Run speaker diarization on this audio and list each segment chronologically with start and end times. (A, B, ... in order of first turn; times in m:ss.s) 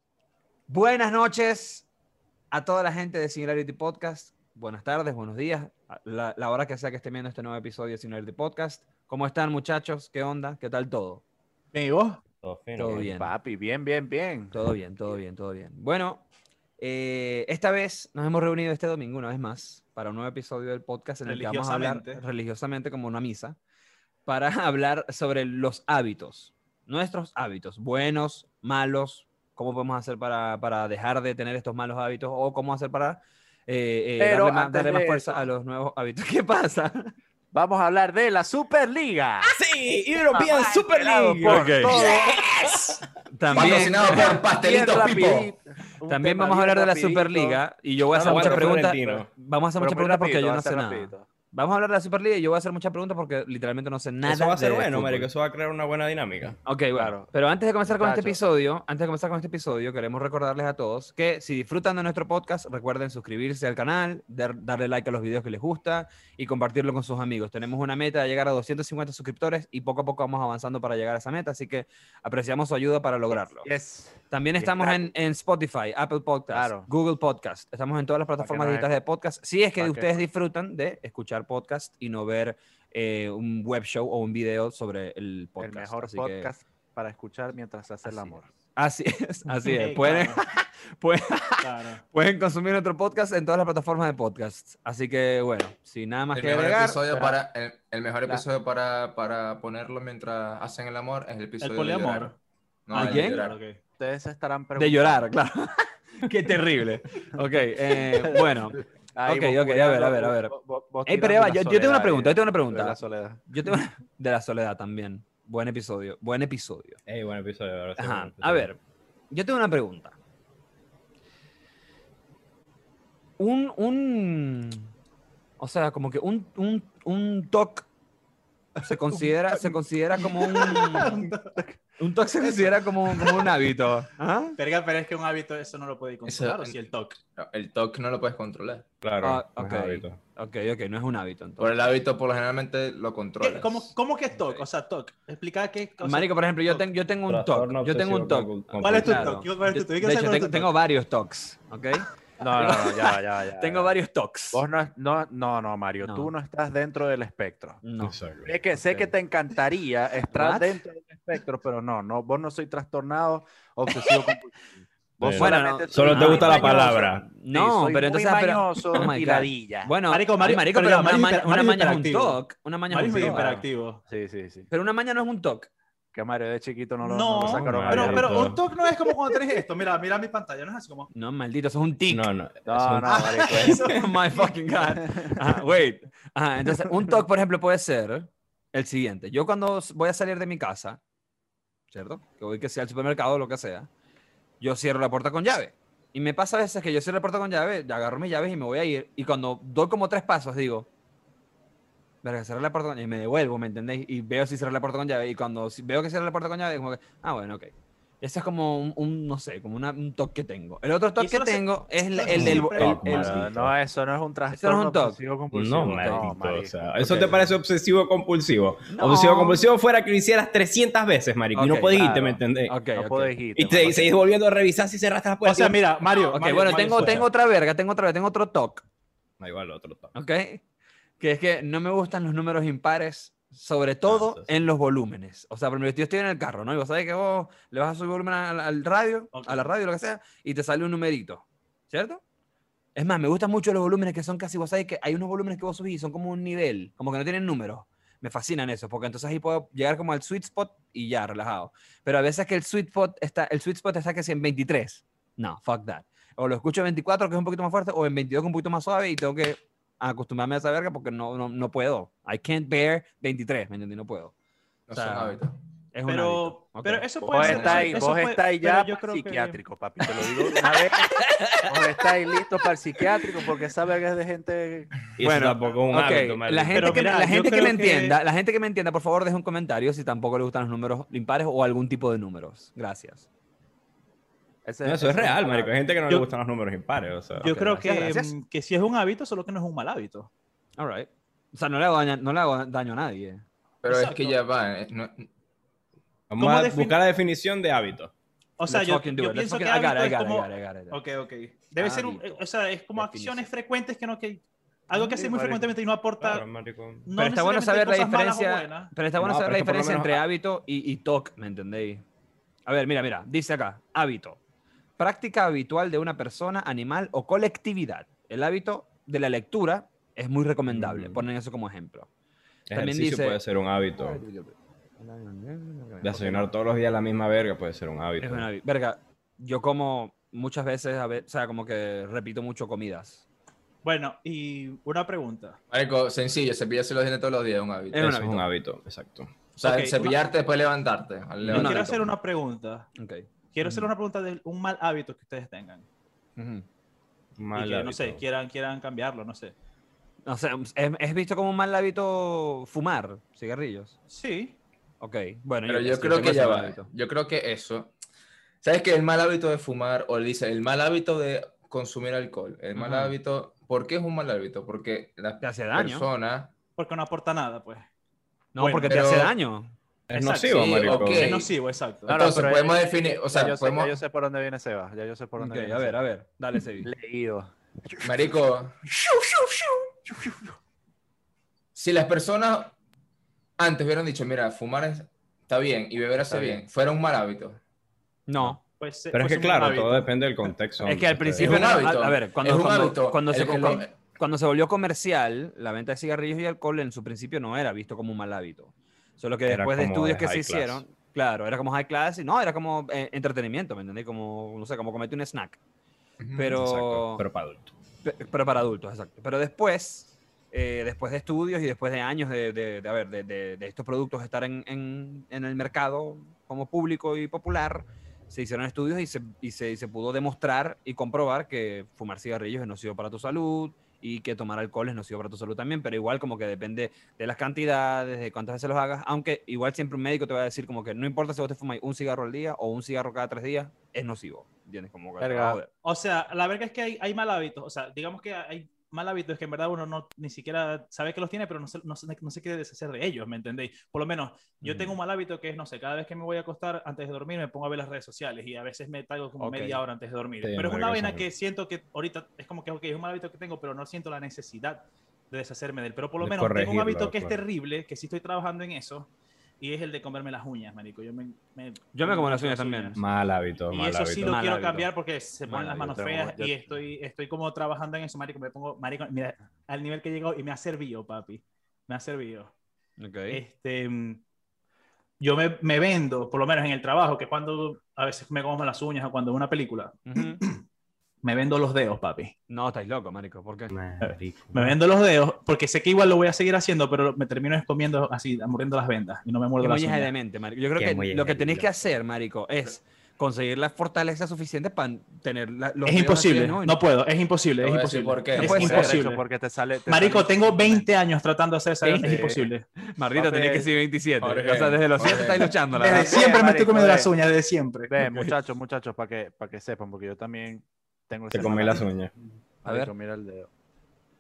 0:00.7-0:01.9 A
0:02.5-0:11.2 A
0:11.7-0:12.2 B
0:12.4-0:13.1 C
0:12.8-0:13.3 A
0:12.9-0:14.6 D
0:14.5-0:16.2 A
0:16.8-0:23.6 A
0:21.3-0:22.2 B
0:24.3-0:37.1 A
0:34.2-0:35.5 D
0:37.5-0:39.6 D
0:39.5-0:43.0 C
0:40.3-0:48.7 D
0:41.4-0:42.1 A
0:43.3-0:44.4 A
0:43.5-0:45.5 E
0:46.1-0:55.3 A
0:48.2-0:49.3 C
0:49.8-0:51.3 D
0:54.2-0:56.6 C
0:56.6-1:13.7 A
0:57.0-0:57.3 D
0:57.9-0:58.4 D
1:13.4-1:15.1 D
1:14.3-1:26.5 A
1:16.5-1:16.9 D
1:18.4-1:18.9 D
1:19.8-1:20.2 D
1:25.6-1:28.5 D
1:28.0-1:37.0 A
1:29.6-1:30.5 B
1:31.6-1:32.0 B
1:36.3-1:42.3 E
1:41.6-1:42.4 B
1:42.9-1:43.6 E
1:42.9-1:43.5 A
1:42.9-1:43.8 B
1:44.0-1:45.3 D
1:44.8-1:50.5 A
1:48.1-1:53.4 D
1:51.0-1:53.0 A
1:53.5-1:57.0 A
1:57.1-1:58.7 C
1:58.0-1:58.8 A
1:59.3-2:00.2 A
2:03.4-2:04.9 A
2:05.6-2:07.9 A
2:08.8-2:11.1 A
2:10.4-2:11.6 B
2:11.0-2:11.8 D
2:12.0-2:14.6 A
2:12.4-2:13.6 B
2:14.6-2:17.2 B
2:16.3-2:16.8 E
2:17.4-2:18.9 E
2:19.0-2:20.2 C
2:19.2-2:21.8 A
2:21.6-2:23.9 E
2:23.4-2:26.8 B
2:26.0-2:34.6 A
2:27.3-2:29.4 C
2:28.8-2:30.7 B
2:32.4-2:34.0 D
2:34.5-2:37.8 D
2:36.0-2:36.3 A
2:37.8-2:38.2 A
2:38.0-2:38.5 C
2:38.4-2:44.6 D
2:38.7-2:39.1 A
2:40.3-2:40.8 A
2:45.2-2:49.9 D
2:45.2-2:47.3 C
2:45.4-2:53.6 A
2:50.1-2:52.4 B
2:52.9-2:54.0 B
2:54.1-2:54.7 D
2:54.7-2:55.7 A
2:56.1-2:58.3 D
2:57.0-3:01.1 B
2:57.4-2:58.6 C
3:01.1-3:02.3 A
3:02.1-3:04.0 C
3:02.7-3:03.8 D
3:03.1-3:04.5 B
3:03.5-3:11.0 A
3:04.9-3:05.5 D
3:11.9-3:13.9 A
3:14.6-3:20.9 A
3:22.2-3:33.5 A
3:31.2-3:33.0 B
3:32.3-3:33.7 C
3:32.4-3:37.5 D
3:34.5-3:35.2 A
3:35.5-3:42.8 C
3:36.0-3:36.3 A
3:38.9-3:39.6 A
3:41.6-3:43.4 A
3:43.0-3:44.2 D
3:43.6-3:47.2 C
3:45.4-3:47.3 B
3:46.3-3:48.8 A
3:49.4-3:50.2 C
3:50.1-3:50.6 A
3:51.2-4:02.2 A
3:54.1-3:54.5 C
3:59.3-3:59.7 B
4:03.0-4:24.3 A
4:24.9-4:25.6 E
4:24.9-4:25.4 A
4:25.9-4:28.1 A
4:26.1-4:29.6 B
4:27.2-4:34.9 D
4:35.2-4:37.0 C
4:35.2-4:43.3 A
4:36.7-4:38.2 B
4:44.6-4:45.8 D
4:44.8-4:47.6 C
4:47.4-4:50.3 B
4:47.4-4:48.3 A
4:50.8-4:53.4 A
4:53.8-4:55.3 E
4:53.9-4:54.4 B
4:56.3-4:58.1 C
4:56.4-4:57.0 B
4:58.6-5:06.4 B
4:58.7-5:01.0 A
5:01.8-5:02.4 A
5:03.0-5:03.5 A
5:04.9-5:05.6 A
5:06.2-5:07.1 C
5:07.1-5:08.9 B
5:07.2-5:12.0 A
5:09.2-5:10.2 C
5:12.7-5:14.4 A
5:15.0-5:22.1 A
5:20.7-5:21.2 C
5:22.7-5:24.2 C
5:22.7-5:23.4 A
5:24.0-5:26.5 A
5:26.0-5:28.5 C
5:28.2-5:33.2 A
5:33.8-5:35.6 B
5:35.7-5:38.0 E
5:37.9-5:38.5 A
5:38.0-5:39.3 C
5:39.6-5:40.2 B
5:39.6-5:42.1 E
5:41.4-5:42.0 A
5:41.5-5:42.9 B
5:43.0-5:43.9 A
5:43.5-5:45.9 B
5:46.4-5:46.6 A
5:47.4-5:48.2 C
5:47.6-5:49.5 B
5:50.3-5:54.0 A
5:54.1-5:54.6 B
5:55.0-5:56.9 A
5:55.7-5:57.9 E
5:58.6-6:06.5 E
6:02.8-6:03.2 A
6:05.4-6:06.1 A
6:06.8-6:07.9 B
6:08.5-6:09.7 A
6:08.6-6:09.0 B
6:08.8-6:09.3 E
6:10.1-6:11.3 C
6:10.1-6:12.2 B
6:10.5-6:11.5 E
6:12.1-6:16.0 D
6:12.1-6:14.0 E
6:15.4-6:16.9 A
6:16.6-6:18.4 D
6:18.0-6:18.7 E
6:19.0-6:20.5 D
6:21.8-6:22.7 E
6:23.6-6:27.6 E
6:26.3-6:26.6 A
6:28.3-6:28.6 A
6:28.8-6:30.1 B
6:29.1-6:31.8 C
6:30.8-6:45.6 A
6:31.4-6:33.9 E
6:39.5-6:40.8 C
6:46.2-6:46.5 E
6:46.4-6:47.2 A
6:46.6-6:47.7 C
6:48.0-7:15.7 A
7:15.2-7:15.6 D
7:15.8-7:39.1 B
7:24.6-7:25.0 A
7:29.4-7:29.8 A
7:30.4-7:31.3 C
7:36.2-7:37.4 C
7:39.6-7:43.0 B
7:41.9-7:43.0 A
7:43.0-7:44.4 C
7:43.7-7:52.5 B
7:44.2-7:44.9 A
7:45.5-7:46.6 A
7:53.0-7:53.4 A
7:53.3-7:54.2 B
7:55.2-8:00.6 B
8:00.1-8:00.4 A
8:01.2-8:02.3 B
8:02.5-8:03.7 A
8:03.7-8:04.6 C
8:04.0-8:10.1 B
8:09.6-8:16.8 A
8:10.8-8:11.7 C
8:15.9-8:19.2 B
8:17.6-8:19.0 E
8:18.4-8:19.0 A
8:18.6-8:20.9 D
8:19.9-8:22.6 B
8:21.8-8:26.3 A
8:22.0-8:22.5 D
8:23.2-8:23.7 D
8:24.2-8:25.6 E
8:25.7-8:28.0 B
8:26.1-8:27.1 D
8:27.9-8:31.9 D
8:28.0-8:28.4 A
8:31.3-8:32.1 C
8:32.6-8:33.5 D
8:32.7-8:32.9 A